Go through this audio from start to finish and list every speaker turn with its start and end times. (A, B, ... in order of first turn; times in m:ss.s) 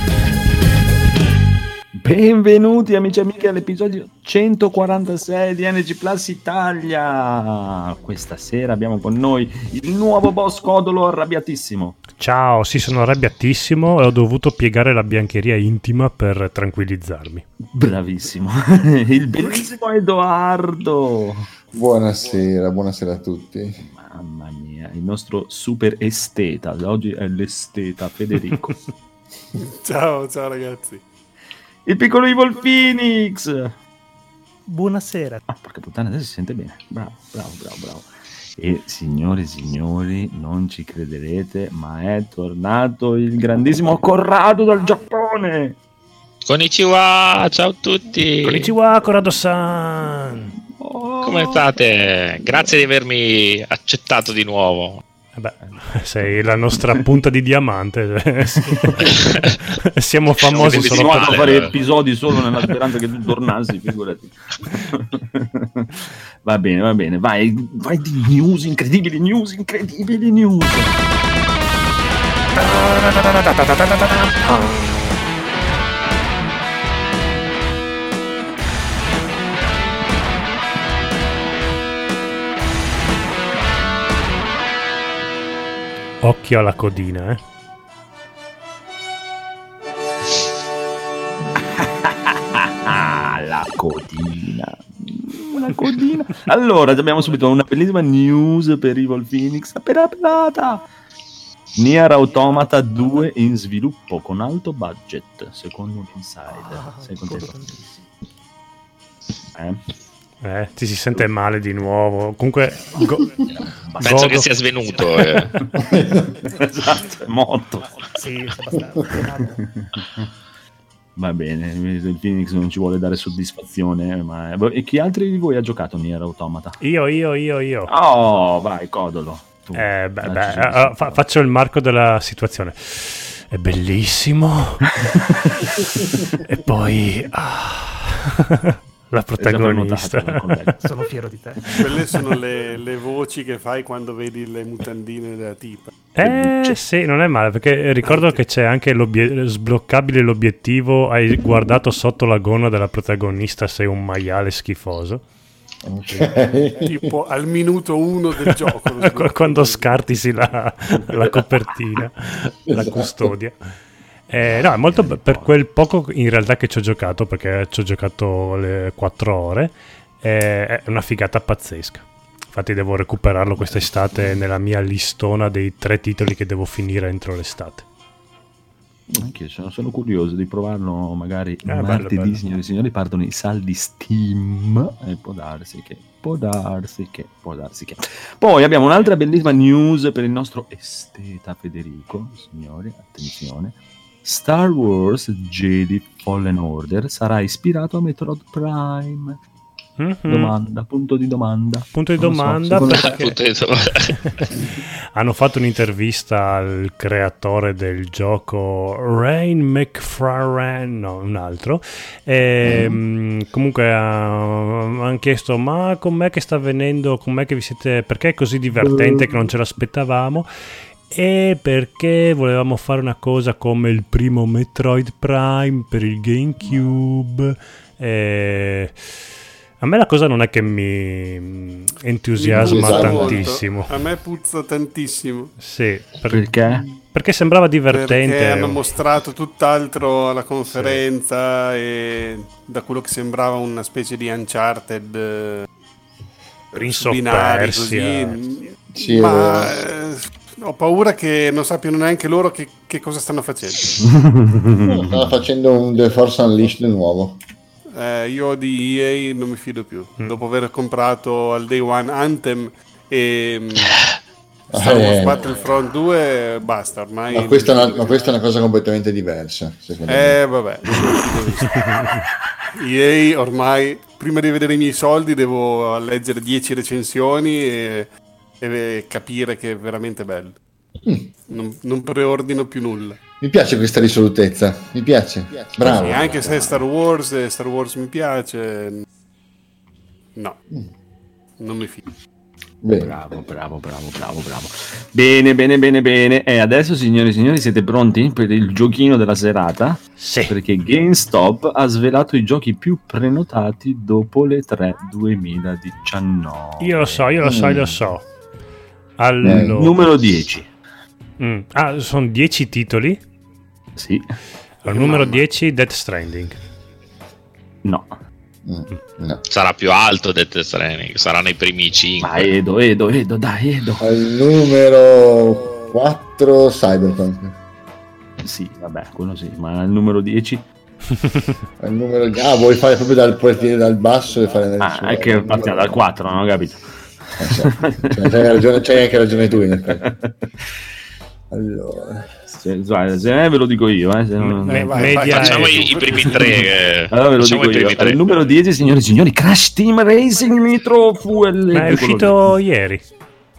0:01.9-0:12.0 A
0:12.1-0:17.4 B
0:17.6-0:21.5 A
0:21.7-0:23.8 C
0:23.8-0:28.8 A
0:29.6-0:31.0 D
0:31.9-0:33.8 A
0:34.7-0:35.4 E
0:35.5-0:45.8 A
0:46.5-0:48.7 F
0:48.4-0:50.5 B
0:50.7-0:51.7 A
0:51.2-0:55.0 F
0:52.4-0:52.7 A
0:55.4-1:01.7 B
0:55.6-0:57.0 A
0:58.7-0:59.5 A
1:00.4-1:01.7 F
1:00.5-1:11.0 A
1:26.2-1:27.4 B
1:31.8-1:40.9 A
1:41.8-1:47.7 A
1:46.5-1:48.0 E
1:49.6-1:49.8 A
1:50.4-1:53.4 B
1:53.5-1:54.5 A
1:54.0-1:54.5 B
1:54.0-1:55.5 F
1:55.8-1:56.3 C
1:56.5-1:58.0 A
1:58.1-1:59.6 E
1:59.6-2:00.3 A
2:01.2-2:06.8 A
2:06.8-2:07.9 B
2:07.9-2:11.2 A
2:09.8-2:14.8 B
2:15.8-2:20.8 B
2:19.4-2:20.8 A
2:20.8-2:21.7 E
2:21.8-2:26.1 D
2:26.1-2:35.2 B
2:26.2-2:26.8 A
2:35.9-2:37.1 C
2:36.8-2:39.9 D
2:38.5-2:43.6 B
2:42.7-2:43.3 C
2:44.3-2:57.8 B
2:44.4-2:45.6 A
2:53.6-2:54.4 A
2:59.2-3:19.4 A
3:01.6-3:02.4 B
3:20.0-3:20.6 B
3:20.3-3:23.1 A
3:21.9-3:23.4 B
3:22.9-3:24.2 F
3:24.0-3:40.5 B
3:32.6-3:33.0 C
3:38.9-3:39.2 C
3:41.1-3:49.0 B
3:49.8-3:54.0 B
3:52.4-3:55.5 D
3:52.5-3:53.5 C
3:55.6-3:58.8 B
3:56.3-3:56.9 A
3:57.9-4:05.7 D
4:06.7-4:14.0 D
4:06.8-4:08.4 B
4:08.9-4:09.9 C
4:14.0-4:15.4 A
4:14.8-4:17.4 C
4:18.0-4:24.0 D
4:24.7-4:25.6 C
4:24.7-4:28.4 D
4:27.3-4:30.4 C
4:30.1-4:32.0 D
4:32.8-4:40.6 D
4:41.0-4:41.3 C
4:41.5-4:43.2 D
4:43.4-4:46.8 C
4:45.8-4:46.7 A
4:45.8-4:49.0 D
4:51.6-4:52.0 D
4:52.8-4:53.2 C
4:52.9-5:07.5 A
5:00.2-5:00.6 B
5:06.8-5:08.2 B
5:07.4-5:07.9 C
5:09.2-5:10.0 B
5:09.4-5:09.8 C
5:09.6-5:10.7 A
5:11.4-5:13.2 B
5:14.0-5:14.4 A
5:14.8-5:16.6 B
5:14.9-5:15.4 D
5:17.8-5:18.2 A
5:18.7-5:19.4 C
5:19.5-5:22.5 F
5:22.2-5:24.2 A
5:24.0-5:27.6 C
5:28.4-5:30.6 A
5:31.8-5:36.0 C
5:34.8-5:38.5 A
5:37.4-5:40.1 C
5:39.8-5:40.5 A
5:41.5-5:42.3 C
5:42.5-5:45.4 A
5:44.4-5:45.9 B
5:44.7-5:46.4 D
5:45.2-5:48.3 F
5:46.3-5:52.6 A
5:51.7-5:53.0 B